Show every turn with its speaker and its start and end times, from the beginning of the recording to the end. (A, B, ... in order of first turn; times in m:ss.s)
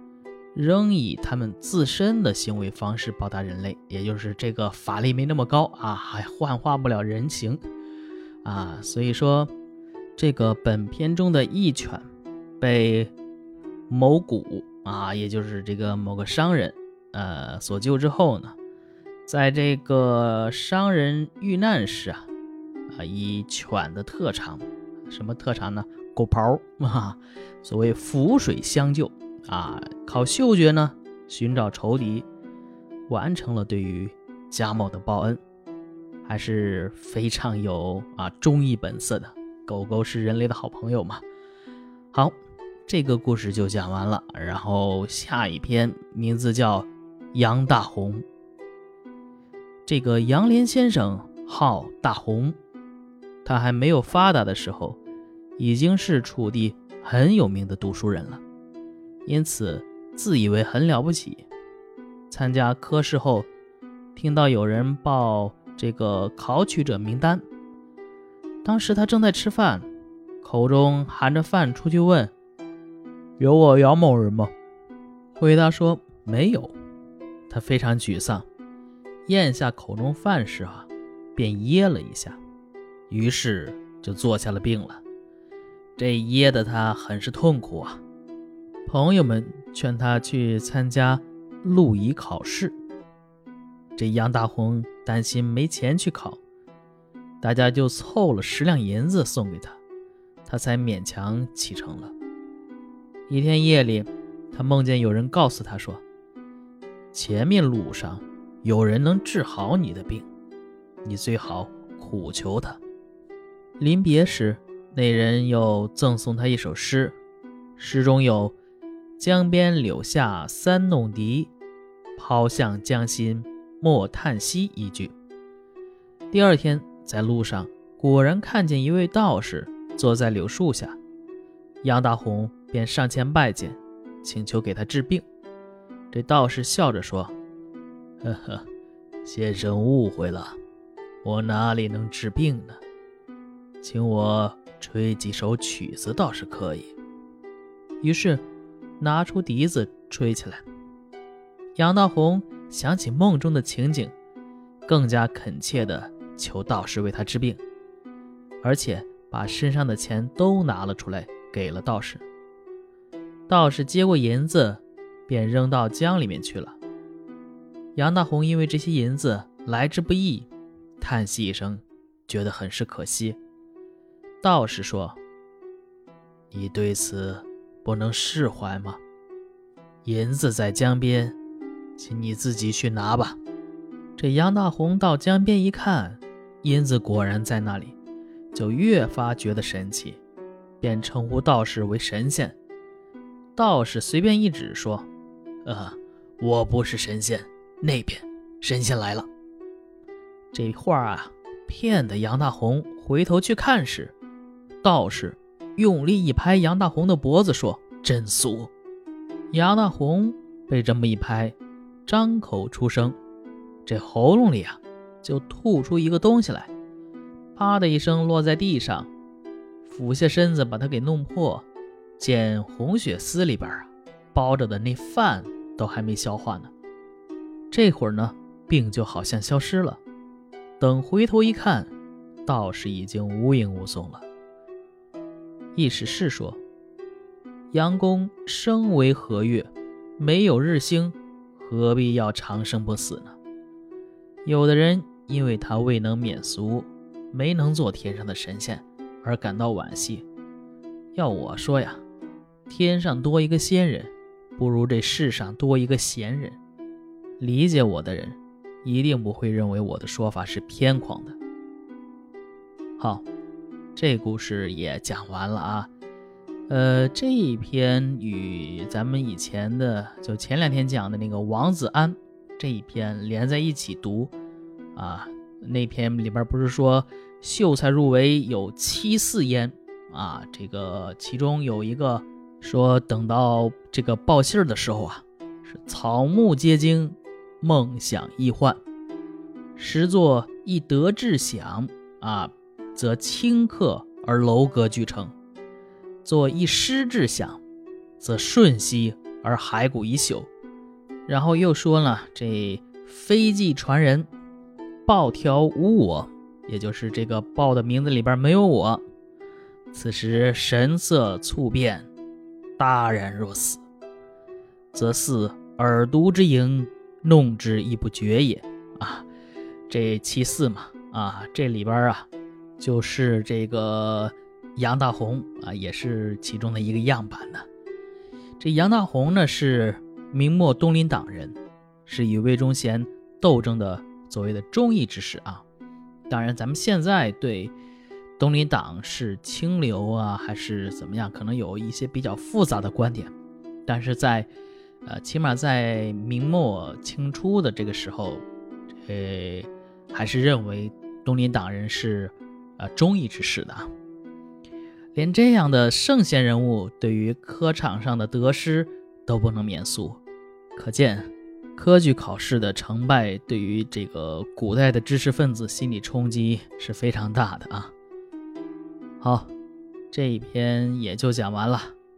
0:00.6-0:07.6 A
0:08.4-0:09.5 A
0:10.2-0:12.1 A
0:12.6-0:13.1 A
0:13.9-0:18.6 A
0:19.3-0:22.3 A
0:22.9-0:32.3 A
0:33.1-0:35.4 A
0:36.2-0:41.2 A
0:42.1-0:48.2 A
0:49.9-0:52.6 A
0:53.4-0:55.0 A
0:55.6-0:58.4 A
0:59.3-1:01.5 A
1:02.3-1:03.5 A
1:04.2-1:07.4 A
1:08.6-1:09.9 A
1:10.4-1:12.3 A
1:13.4-1:14.5 A
1:15.4-1:16.7 A
1:17.5-1:18.5 A
1:19.3-1:22.4 A
1:23.1-1:25.0 A
1:26.0-1:28.0 A
1:28.9-1:32.8 A
1:34.0-1:36.4 A
1:37.4-1:39.8 A
1:40.5-1:42.2 A
1:43.3-1:46.0 A
1:47.1-1:50.3 A
1:51.0-1:52.8 A
1:53.8-1:57.2 A
1:57.8-1:58.6 A
1:59.2-2:01.5 A
2:02.2-2:05.1 A
2:06.3-2:11.0 A
2:11.8-2:15.3 A
2:16.1-2:17.3 A
2:18.2-2:18.7 A
2:19.2-2:20.6 A
2:21.2-2:22.8 A
2:23.8-2:26.9 A
2:28.0-2:28.4 A
2:29.0-2:30.6 A
2:31.8-2:34.1 A
2:34.9-2:37.6 A
2:38.6-2:42.2 A
2:43.5-2:46.8 A
2:48.0-2:53.4 A
2:54.4-2:55.2 A
2:56.5-2:59.0 A
3:00.0-3:01.4 A
3:02.0-3:03.4 A
3:04.2-3:08.0 A
3:08.5-3:10.2 A
3:10.8-3:12.6 A
3:13.6-3:15.1 A
3:15.6-3:19.3 A
3:20.5-3:24.1 A
3:24.8-3:28.7 A
3:29.5-3:33.2 A
3:33.8-3:36.7 A
3:37.6-3:39.1 A
3:39.8-3:41.6 A
3:42.2-3:46.7 A
3:47.7-3:50.0 A
3:50.8-3:51.9 A
3:52.4-3:54.2 A
3:55.8-3:56.6 A
3:57.7-4:03.4 A
4:04.4-4:10.2 A
4:11.1-4:12.0 A
4:12.7-4:16.6 A
4:17.4-4:21.4 A
4:23.0-4:23.3 A
4:24.0-4:25.9 A
4:26.7-4:34.3 A
4:35.0-4:48.8 A
4:49.8-4:55.3 A
4:56.2-4:57.6 A
4:58.2-5:00.5 A
5:01.3-5:04.3 A
5:05.1-5:09.0 A
5:09.9-5:12.1 A
5:12.8-5:13.8 A
5:14.9-5:19.3 A
5:19.9-5:27.7 A
5:28.6-5:35.6 A
5:36.3-5:37.7 A
5:38.4-5:43.3 A
5:43.9-5:44.5 A
5:45.1-5:48.4 A
5:49.1-5:53.9 A
5:55.2-6:00.2 A
6:00.8-6:07.9 A
6:09.2-6:09.5 A
6:10.1-6:12.0 A